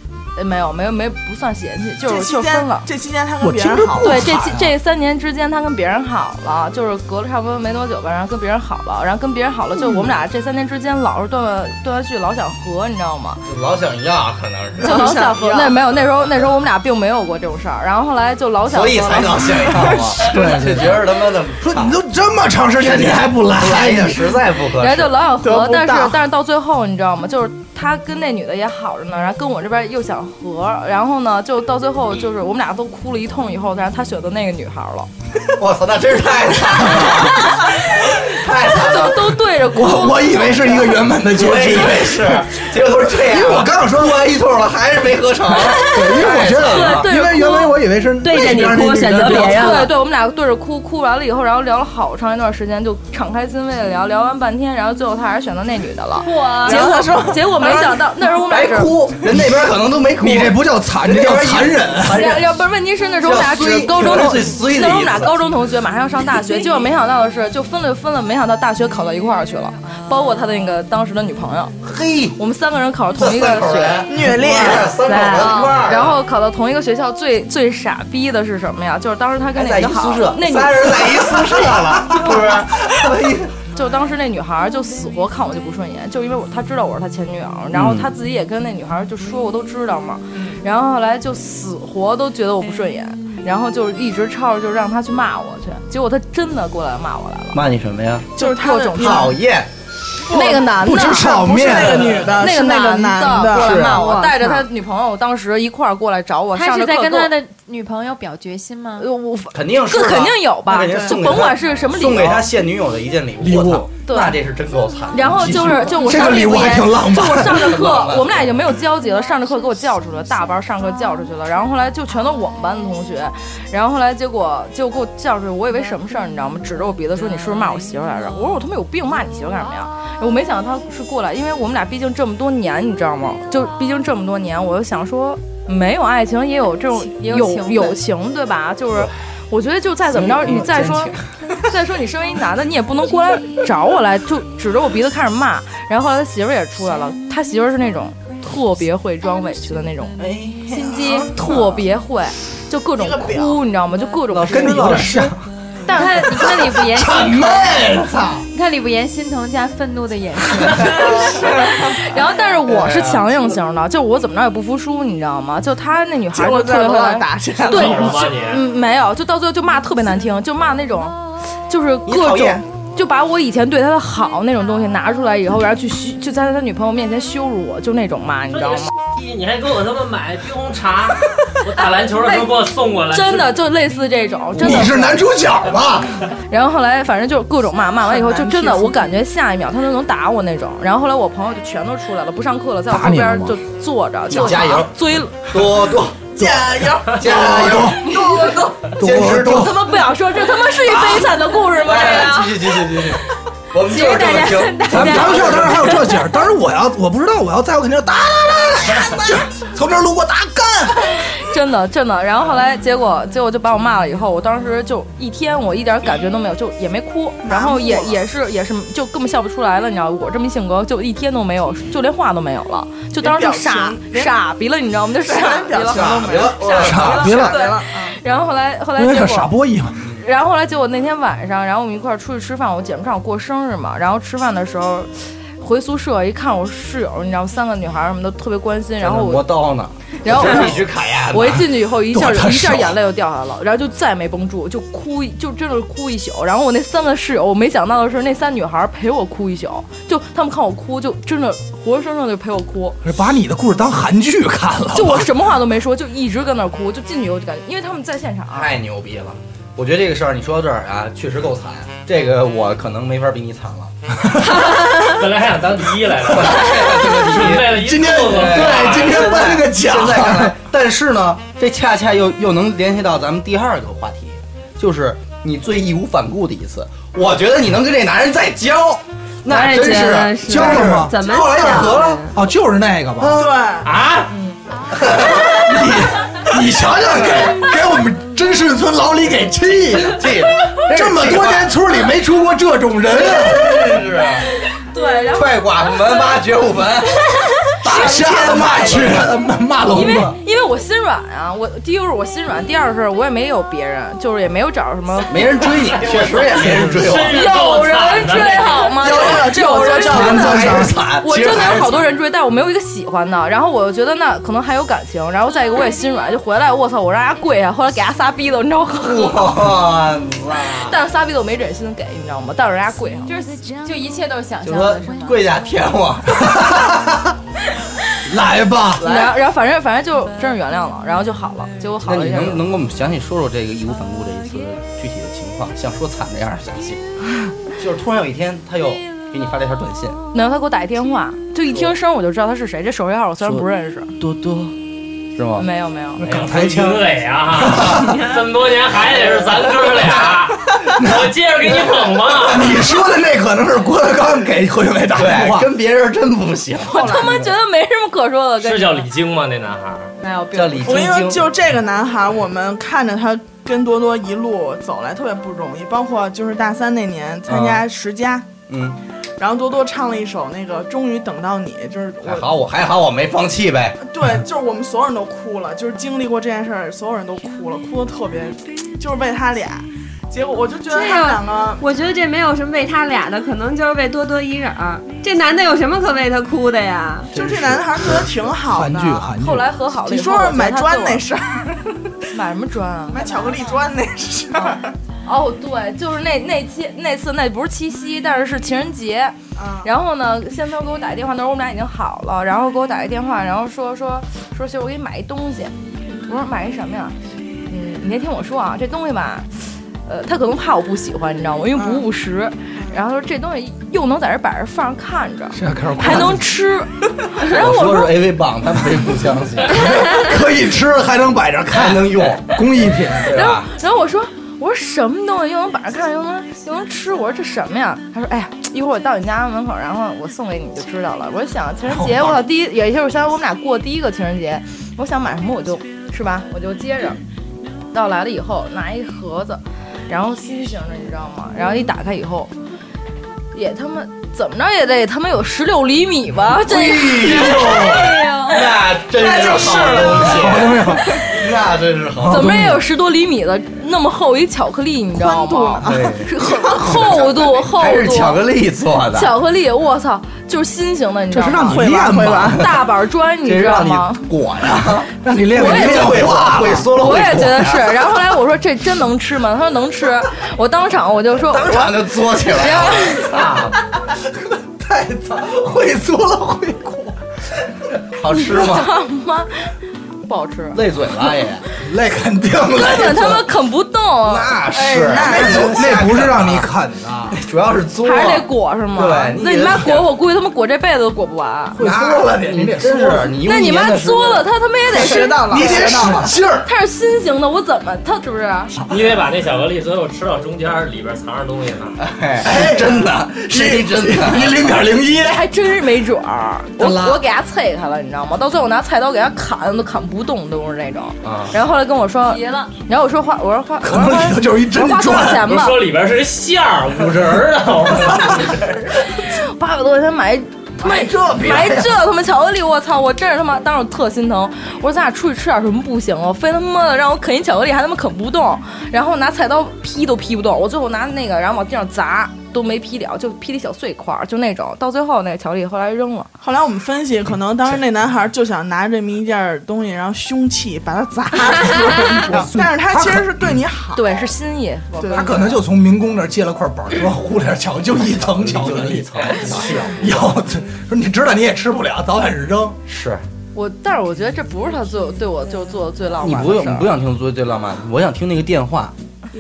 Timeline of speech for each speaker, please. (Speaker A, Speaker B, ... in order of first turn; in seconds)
Speaker A: 0.3-2.9, 4.0-13.4, 14.8-19.9, 24.8-35.1, 37.3-37.6, 38.4-41.0, 45.9-47.7, 49.2-58.9, 62.0-71.7, 72.4-82.3, 83.7-97.6, 98.4-99.3, 100.2-107.3, 109.0-112.5, 114.0-114.3, 115.1-141.1, 141.7-150.2, 150.7-155.3, 155.9-156.4, 161.9-171.2, 171.7-178.9, 181.8-182.5, 183.1-185.2, 186.5-195.7, 198.2-198.6, 199.4-203.0, 204.0-205.5, 211.2-229.5, 230.2-239.6, 240.2-253.0, 254.9-258.7, 294.6-296.5, 297.8-298.7, 299.9-305.4, 307.3-319.7, 320.6-323.4, 329.0-332.6, 340.3-344.1, 345.6-346.2, 356.8-359.1, 360.2-361.0, 389.4-391.2, 392.3-393.7, 394.5-405.7, 406.2-407.1, 407.7-409.5, 410.1-418.2, 423.3-437.2, 437.9-442.5, 443.5-448.6, 449.3-450.4, 452.2-458.4, 459.1-461.8, 462.4-464.2, 465.6-466.2, 466.7-473.3, 478.3-479.5, 480.2-481.3, 482.7-484.6, 488.0-491.8, 493.0-495.9, 496.6-498.8, 505.2-515.9, 519.0-536.3, 543.9-545.5, 553.5-556.9
Speaker B: 2.0-4.2, 14.8-15.8, 25.4-26.2, 56.6-58.1, 74.0-75.2, 98.3-99.4, 100.2-104.7, 110.9-111.2, 153.0-153.6, 166.3-168.3, 188.1-188.9, 196.3-198.9, 217.4-218.2, 223.2-224.4, 225.2-228.2, 283.3-283.9, 308.9-310.9, 360.8-368.5, 369.4-372.5, 374.0-381.8, 387.3-389.3, 390.1-392.0, 393.1-394.9, 399.6-399.9, 411.7-412.0, 449.2-450.4, 455.1-456.1, 461.6-462.6, 484.7-485.8, 494.9-496.3, 536.4-544.2, 544.9-545.5
Speaker C: 3.4-4.7, 19.6-21.1, 21.6-24.4, 39.6-44.3, 45.9-49.8, 60.2-62.3, 100.8-102.2, 113.4-113.9, 115.3-117.8, 154.4-155.4, 156.4-158.4, 184.6-186.2, 192.9-193.6, 197.2-198.2, 199.0-199.9, 204.9-211.1, 226.8-227.6, 228.9-230.0, 242.0-243.0, 253.0-255.4, 267.3-270.6, 280.4-283.5, 285.0-293.8, 297.8-300.4, 328.2-329.2, 346.2-348.1, 352.4-355.7, 387.3-389.7, 415.5-416.5, 419.7-423.4, 431.9-432.4, 450.2-451.1, 452.2-452.8, 461.3-462.7, 464.7-466.9, 474.3-477.1, 481.8-483.4, 485.1-487.4, 491.7-493.3, 495.4-496.7, 502.4-505.4, 506.8-507.2, 513.8-515.5, 520.8-521.9, 542.1-543.6, 545.1-552.8
Speaker D: 13.4-15.1, 18.7-21.9, 22.8-25.2, 35.5-39.4, 41.2-47.1, 58.5-62.6, 63.2-65.3, 71.8-72.4, 73.2-76.2, 79.5-83.5, 87.7-88.1, 97.5-98.3, 99.0-99.7, 103.5-104.1, 109.5-115.9, 117.4-118.5, 140.1-141.3, 150.2-151.8, 154.3-155.3, 161.3-161.8, 162.6-163.6, 172.1-172.6, 194.3-199.9, 200.8-206.1, 225.9-227.3, 239.0-241.7, 258.5-263.9, 266.3-282.2, 284.9-285.6, 289.9-291.7, 293.1-294.5, 295.3-297.3, 298.1-299.3, 305.3-307.5, 310.0-312.1, 319.0-321.0, 324.6-327.1, 329.0-329.3, 332.0-337.0, 337.7-340.2, 344.2-344.8, 345.3-345.7, 355.1-357.5, 360.5-361.5, 367.5-367.8, 368.7-369.0, 372.2-374.0, 417.4-420.2, 421.7-423.7, 446.5-452.5, 455.8-459.4, 463.4-468.1, 471.4-473.7, 478.0-478.9, 480.7-481.6, 484.2-486.7, 487.3-490.1, 491.8-494.5, 502.0-504.9, 511.2-511.5, 548.0-550.3, 552.9-553.2, 556.2-558.9
Speaker E: 48.2-49.9, 279.4-282.3, 380.9-387.3
Speaker F: 56.3-56.8, 106.5-109.1, 137.1-138.0, 155.8-157.8, 158.5-161.2, 203.9-205.0, 323.3-325.4, 512.3-512.7
Speaker G: 167.7-168.6, 179.1-183.6, 264.7-269.3, 283.8-284.3, 305.9-309.0, 346.2-352.7, 358.6-360.1, 473.3-473.7, 498.9-502.0, 515.4-518.7